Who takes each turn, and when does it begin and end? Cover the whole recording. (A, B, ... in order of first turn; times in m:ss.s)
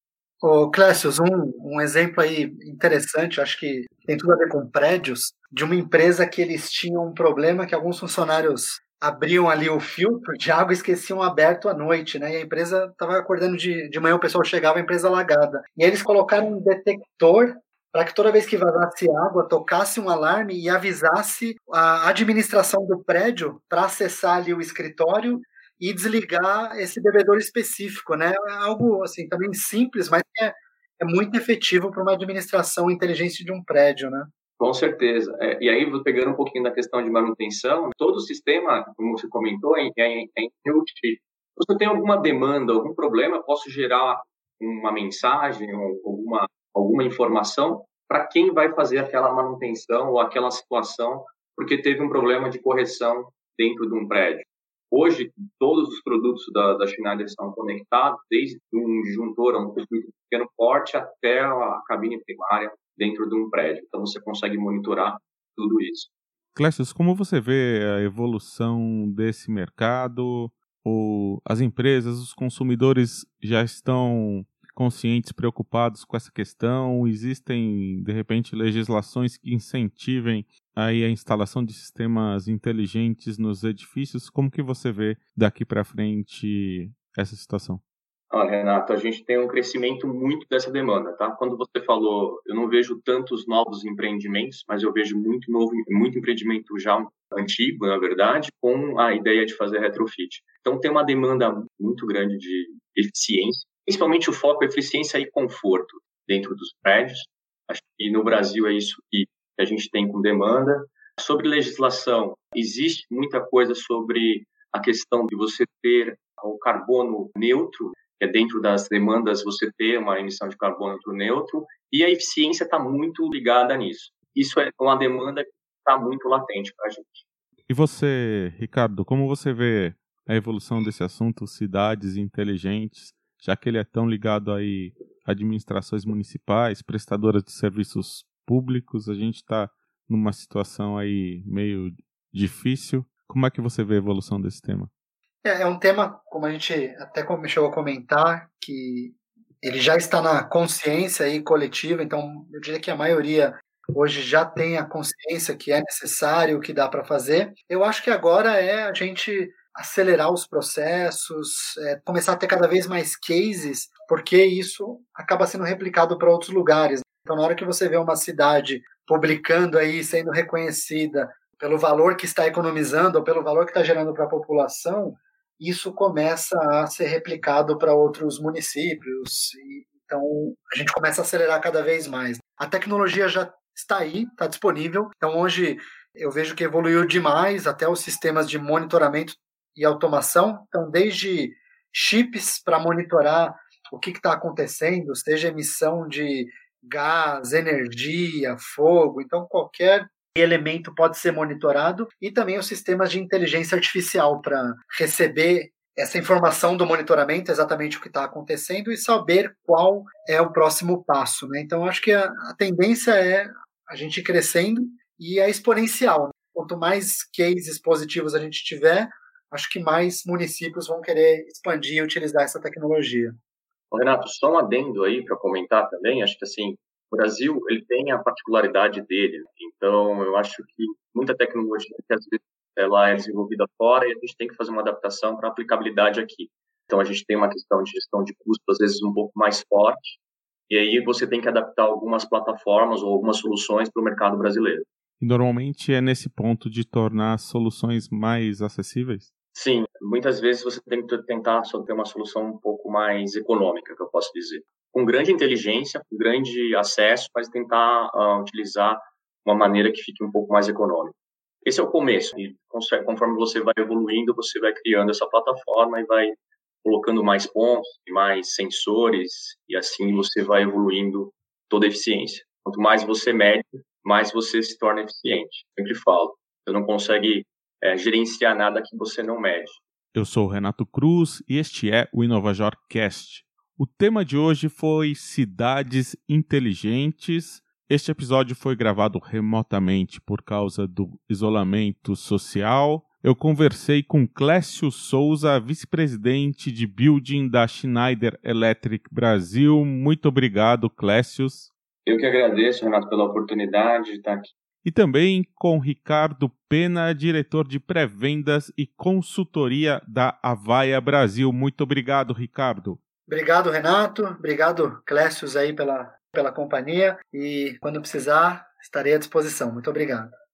0:00.4-0:34.3 A
0:34.6-1:06.1 B
1:06.6-1:27.8 C
1:28.3-2:07.2 B
2:07.7-2:24.9 C
2:25.4-3:43.3 A
3:43.9-4:00.2 B
4:00.7-4:04.9 B
4:05.2-4:09.3 C
4:09.5-4:39.8 B
4:40.1-5:01.7 C
5:02.0-5:04.5 B
5:04.8-5:13.0 C
5:13.3-5:20.3 A